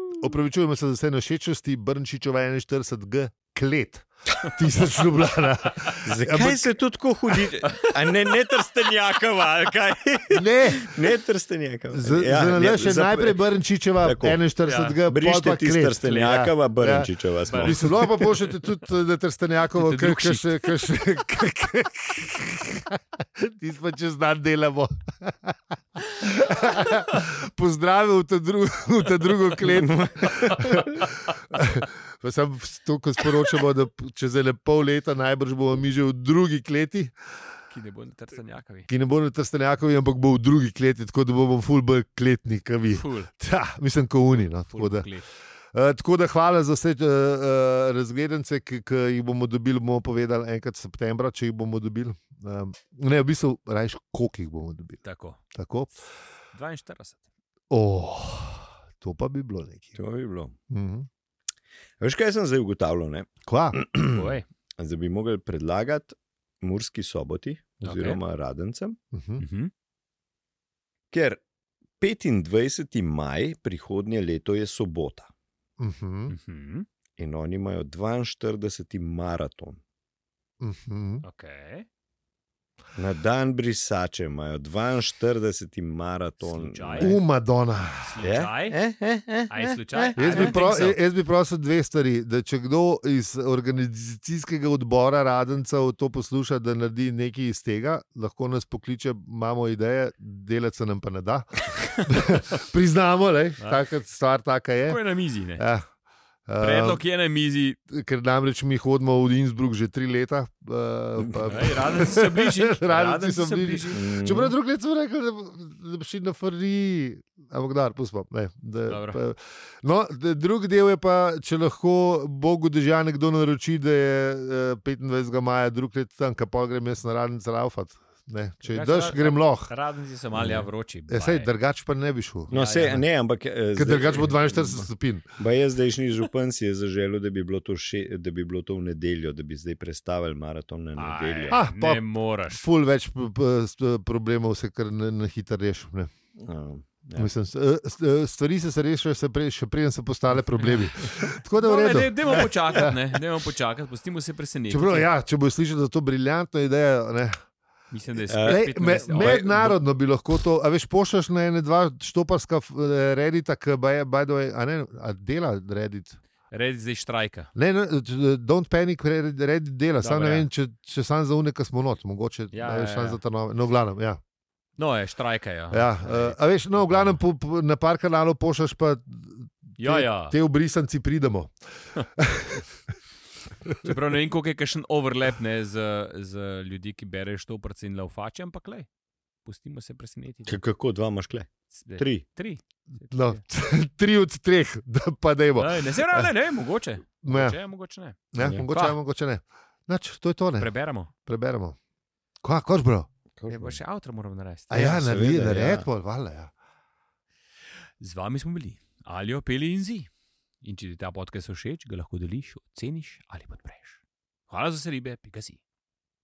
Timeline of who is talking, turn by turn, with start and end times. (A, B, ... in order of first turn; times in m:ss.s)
0:00.2-0:06.7 A
0:05.7-0:06.0 B
0:06.0-0:13.4 C
0:07.6-0:09.8 B
0:10.3-0:10.9 A
0:11.9-0:17.1 A
0:14.0-0:14.4 C
0:14.6-0:15.0 B
0:15.1-0:18.2 C
0:17.5-0:18.3 B
0:17.6-0:37.1 A
0:19.7-0:20.6 B
0:29.7-0:30.8 C
0:30.2-0:31.1 B
0:37.7-0:38.9 B
0:38.9-0:45.1 A
0:42.9-0:43.3 B
0:44.7-0:45.3 B
0:45.7-0:55.0 A
0:55.0-0:55.4 B
0:55.6-0:55.9 A
0:56.5-0:57.2 B
0:57.7-1:00.0 A
1:00.0-1:00.6 C
1:00.7-1:01.1 A
1:02.0-1:09.0 C
1:03.5-1:03.8 A
1:04.0-1:04.5 B
1:07.8-1:08.2 B
1:09.1-1:09.4 A
1:09.4-1:09.7 B
1:11.1-1:11.4 C
1:12.0-1:15.3 C
1:15.8-1:16.4 A
1:16.3-1:16.9 B
1:17.2-1:19.8 C
1:20.6-1:21.2 A
1:21.2-1:21.9 B
1:23.0-1:27.2 C
1:26.4-1:27.2 B
1:27.0-1:28.2 A
1:28.0-1:28.8 B
1:28.2-1:30.6 C
1:29.5-1:31.0 B
1:30.2-1:45.0 A
1:41.7-1:42.0 B
1:43.6-1:43.8 B
1:44.9-1:45.6 B
1:45.6-1:45.9 A
1:46.5-1:47.0 A
1:46.6-1:47.8 B
1:47.9-2:09.7 A
1:51.4-1:54.0 B
1:53.9-1:54.5 C
1:58.9-1:59.2 B
2:08.6-2:11.5 B
2:10.3-2:10.7 C
2:11.1-2:12.5 A
2:12.5-2:13.0 B
2:12.5-2:21.6 C
2:13.8-2:15.3 A
2:21.0-2:22.6 B
2:21.5-2:26.1 A
2:26.4-2:27.3 C
2:27.2-2:33.0 A
2:31.6-2:35.1 B
2:34.7-2:37.4 A
2:37.9-2:39.4 B
2:38.3-2:39.8 C
2:38.4-2:46.2 A
2:46.5-2:47.5 B
2:47.6-2:54.2 A
2:50.0-2:50.5 B
2:52.5-2:53.2 B
2:54.8-2:57.2 B
2:55.7-3:01.5 A
2:59.8-3:00.4 B
3:02.1-3:02.7 A
3:03.8-3:08.9 B
3:09.4-3:10.6 B
3:10.5-3:12.2 C
3:11.7-3:13.4 B
3:13.1-3:16.3 A
3:15.6-3:19.0 B
3:17.2-3:17.6 A
3:18.3-3:21.8 A
3:18.4-3:18.7 C
3:20.6-3:21.1 B
3:22.4-3:23.1 A
3:23.4-3:23.8 C
3:23.5-3:24.8 B
3:24.7-3:26.5 A
3:24.7-3:25.9 C
3:28.0-3:30.1 B
3:30.6-3:35.6 B